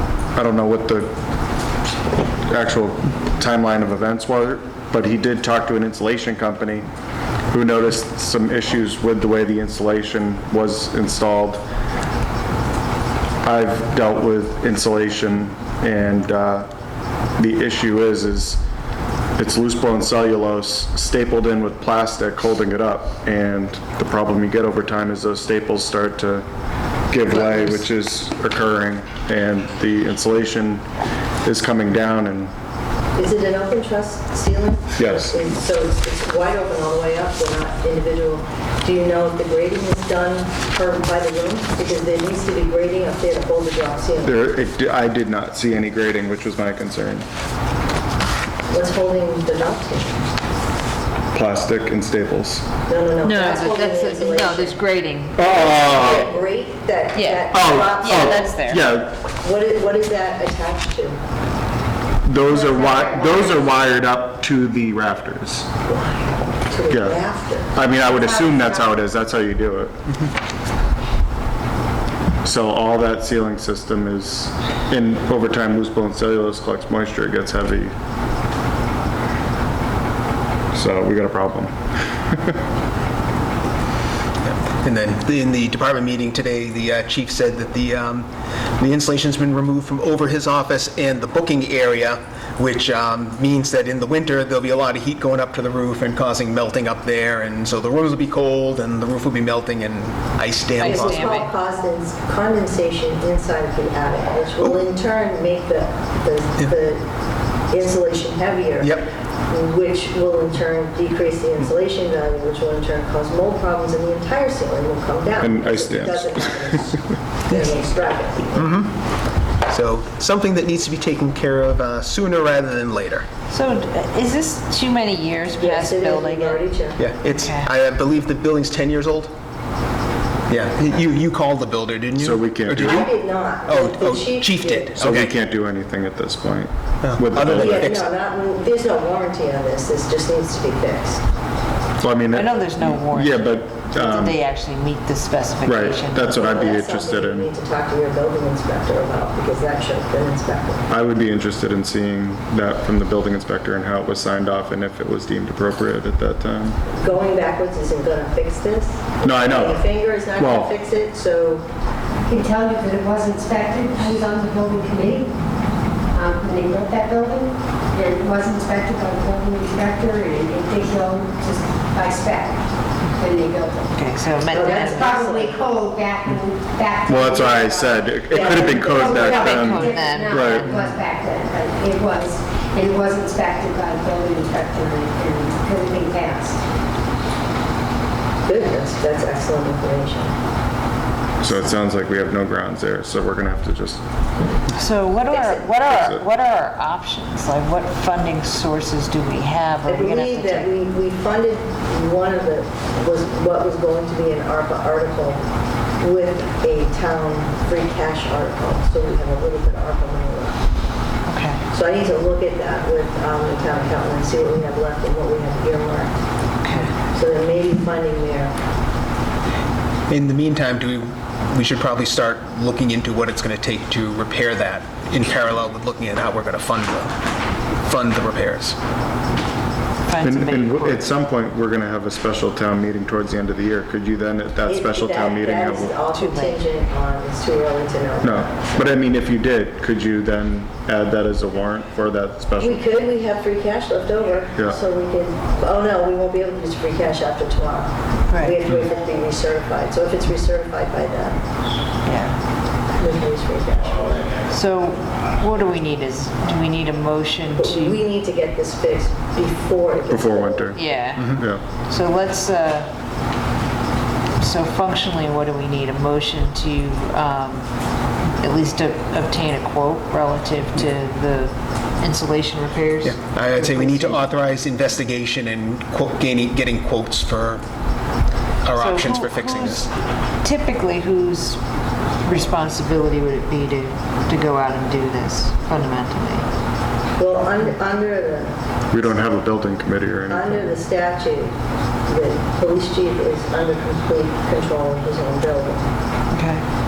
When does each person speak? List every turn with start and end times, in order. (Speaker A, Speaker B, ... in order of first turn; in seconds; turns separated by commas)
Speaker A: 0.3-1.1, Speaker A: 2.5-6.8, Speaker A: 7.5-11.6, Speaker A: 13.4-16.7, Speaker A: 17.4-18.6, Speaker A: 19.4-26.5, Speaker A: 27.1-30.8, Speaker A: 31.4-32.5, Speaker B: 33.2-44.3, Speaker A: 35.0-35.4, Speaker A: 44.2-47.2, Speaker B: 48.7-50.1, Speaker A: 51.3-52.6, Speaker B: 52.9-54.8, Speaker C: 53.2-55.7, Speaker A: 55.4-56.3, Speaker B: 55.5-58.6, Speaker C: 57.1-58.9, Speaker A: 57.5-59.2, Speaker B: 59.3-61.2, Speaker A: 62.2-65.7, Speaker D: 62.4-63.7, Speaker B: 65.9-67.7, Speaker A: 66.9-67.2, Speaker A: 67.7-70.1, Speaker D: 68.0-69.0, Speaker A: 72.4-77.9, Speaker A: 80.7-82.6, Speaker E: 84.4-88.3, Speaker E: 88.8-101.3, Speaker C: 100.8-101.5, Speaker B: 100.8-107.0, Speaker B: 107.7-118.7, Speaker E: 108.8-109.1, Speaker A: 115.4-116.6, Speaker E: 118.6-119.0, Speaker E: 119.7-123.3, Speaker C: 123.5-126.6, Speaker B: 125.5-127.0, Speaker E: 127.0-129.3, Speaker C: 127.3-127.7, Speaker E: 130.5-133.1, Speaker A: 132.2-133.0, Speaker B: 132.8-135.0, Speaker E: 133.7-135.3, Speaker A: 135.0-137.9, Speaker E: 137.0-138.1, Speaker B: 137.5-141.2, Speaker A: 142.0-144.4, Speaker C: 142.3-146.5, Speaker A: 145.6-147.5, Speaker B: 146.3-150.8, Speaker A: 150.9-156.8, Speaker B: 157.0-161.6, Speaker A: 159.2-159.8, Speaker A: 160.3-160.7, Speaker D: 162.2-165.3, Speaker D: 166.1-174.0, Speaker C: 173.9-175.2, Speaker B: 174.5-175.7, Speaker D: 174.5-186.6, Speaker A: 177.1-180.7, Speaker B: 178.3-179.2, Speaker C: 179.0-181.0, Speaker B: 188.4-190.3, Speaker A: 191.4-194.0, Speaker C: 194.7-200.7, Speaker B: 195.3-195.7, Speaker A: 195.9-196.2, Speaker B: 199.8-205.4, Speaker B: 206.0-210.6, Speaker C: 211.3-211.6, Speaker B: 211.7-216.1, Speaker C: 216.6-216.9, Speaker B: 217.0-218.5, Speaker E: 220.1-227.1, Speaker E: 227.8-228.8, Speaker C: 230.1-231.1, Speaker A: 230.2-236.0, Speaker B: 234.7-238.6, Speaker C: 236.1-236.6, Speaker A: 238.2-242.8, Speaker B: 242.6-251.4, Speaker C: 248.3-248.6, Speaker C: 252.0-252.3, Speaker B: 252.9-254.3, Speaker C: 254.5-258.0, Speaker B: 257.6-260.7, Speaker A: 260.1-260.8, Speaker C: 260.8-262.9, Speaker A: 261.3-261.6, Speaker C: 264.4-267.7, Speaker C: 268.4-274.2, Speaker E: 273.0-277.6, Speaker E: 278.6-279.9, Speaker C: 278.7-279.9, Speaker C: 280.4-281.6, Speaker C: 282.2-286.5, Speaker B: 287.1-288.5, Speaker A: 288.9-290.8, Speaker B: 290.3-291.5, Speaker B: 292.1-295.8, Speaker C: 296.3-296.6